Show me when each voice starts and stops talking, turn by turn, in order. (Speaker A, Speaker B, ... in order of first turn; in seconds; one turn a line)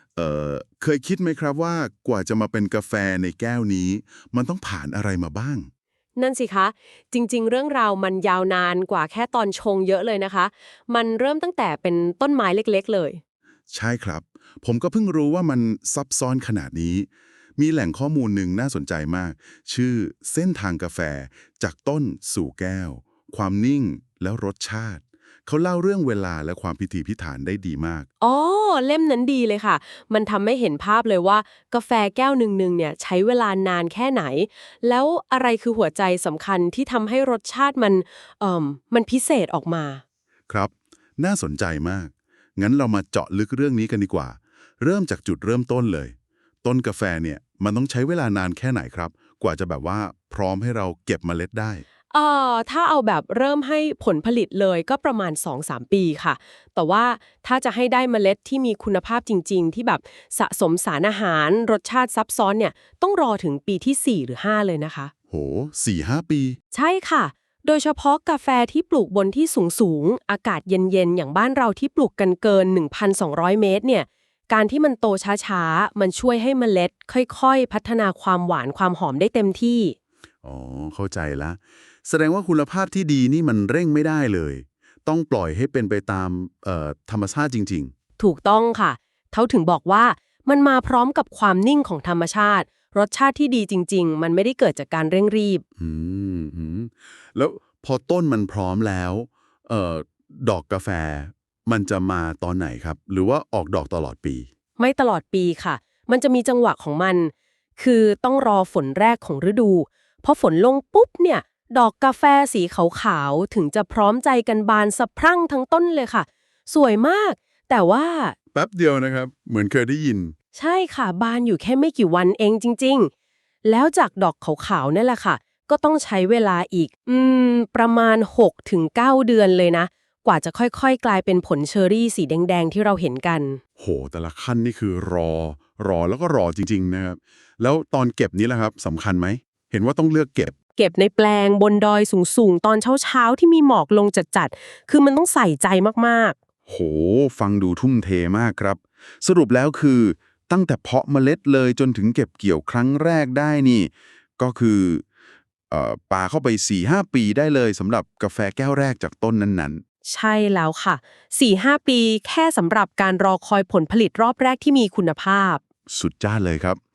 Speaker A: 0.2-5.7
Speaker B: 6.2-13.2
Speaker A: 13.7-28.1
Speaker B: 28.2-40.0
Speaker A: 40.5-51.8
Speaker B: 52.1-65.1
Speaker A: 65.3-66.6
Speaker B: 66.7-80.0
Speaker A: 80.4-87.9
Speaker B: 88.2-95.6
Speaker A: 95.8-104.5
Speaker B: 104.8-118.4
Speaker A: 118.5-120.3
Speaker B: 120.5-123.1
Speaker B: 123.7-133.6
Speaker A: 133.8-140.5
Speaker B: 140.8-146.4
Speaker A: 146.7-155.0
Speaker A: 155.7-159.8
Speaker B: 160.1-165.6
Speaker A: 165.9-166.8